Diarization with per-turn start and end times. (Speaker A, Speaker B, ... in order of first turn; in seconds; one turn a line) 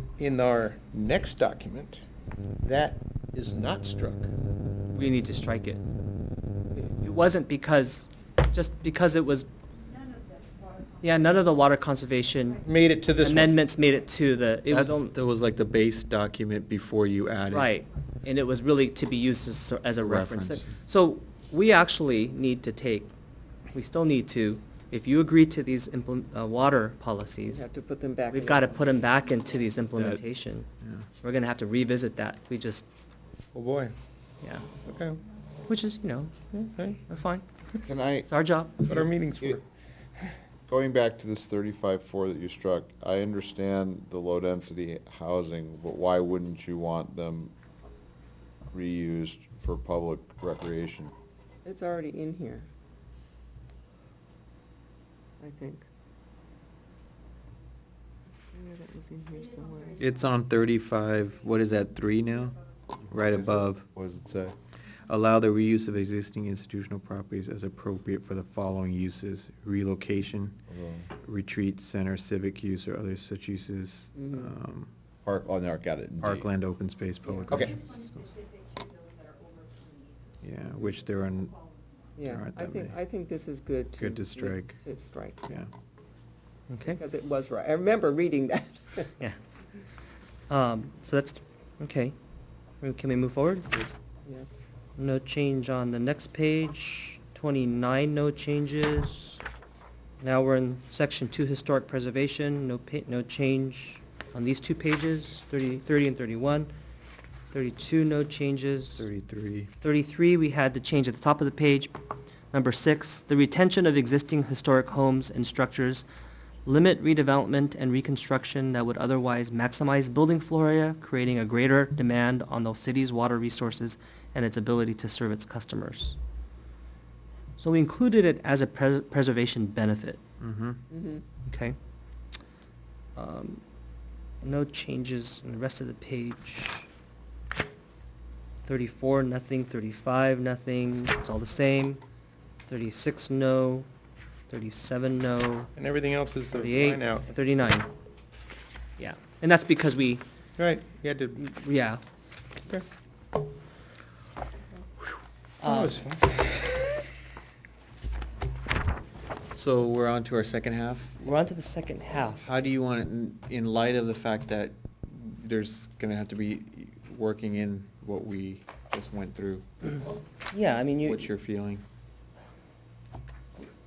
Speaker A: 0.2-2.0
Speaker A: 2.6-4.3
Speaker B: 4.9-5.8
Speaker B: 6.7-9.5
Speaker C: 9.9-11.4
Speaker B: 11.0-12.6
Speaker A: 12.6-13.6
Speaker B: 13.2-15.1
Speaker D: 14.7-17.7
Speaker B: 17.5-23.1
Speaker D: 20.0-20.7
Speaker B: 23.7-27.6
Speaker E: 27.5-29.0
Speaker B: 28.3-30.7
Speaker D: 29.9-30.2
Speaker B: 31.2-32.8
Speaker A: 33.5-33.9
Speaker B: 34.4-34.7
Speaker A: 34.8-35.2
Speaker B: 35.7-38.8
Speaker F: 37.8-39.6
Speaker A: 38.9-39.6
Speaker F: 40.7-47.5
Speaker F: 48.7-51.1
Speaker E: 51.6-52.7
Speaker E: 55.4-55.9
Speaker E: 58.3-60.0
Speaker C: 59.6-60.0
Speaker D: 60.0-62.6
Speaker F: 63.0-64.5
Speaker D: 63.1-63.9
Speaker D: 65.1-70.6
Speaker F: 70.7-71.1
Speaker D: 71.2-74.9
Speaker E: 74.2-74.5
Speaker F: 75.2-76.5
Speaker D: 76.2-78.1
Speaker E: 77.3-77.6
Speaker F: 77.5-77.9
Speaker C: 77.7-80.2
Speaker D: 80.4-81.6
Speaker E: 82.2-85.5
Speaker D: 82.2-83.0
Speaker D: 84.0-84.8
Speaker B: 86.7-87.0
Speaker E: 86.9-89.1
Speaker B: 90.5-92.1
Speaker B: 92.8-93.8
Speaker E: 94.2-94.6
Speaker B: 95.0-99.4
Speaker B: 100.2-106.7
Speaker B: 107.5-109.0
Speaker D: 109.0-109.7
Speaker B: 109.8-111.9
Speaker B: 112.5-116.0
Speaker B: 116.7-126.2
Speaker B: 127.6-130.2
Speaker D: 130.4-130.8
Speaker E: 130.9-131.2
Speaker B: 131.5-131.7
Speaker B: 133.2-133.6
Speaker B: 134.4-136.9
Speaker B: 138.6-142.0
Speaker B: 142.7-143.9
Speaker B: 144.5-145.7
Speaker A: 145.8-147.3
Speaker B: 146.5-147.9
Speaker B: 149.0-150.2
Speaker A: 150.6-151.4
Speaker B: 151.4-152.0
Speaker B: 155.6-156.1
Speaker A: 155.6-156.7
Speaker D: 159.5-161.2
Speaker B: 161.2-162.4
Speaker D: 162.4-169.8
Speaker B: 170.5-171.2
Speaker D: 171.0-171.8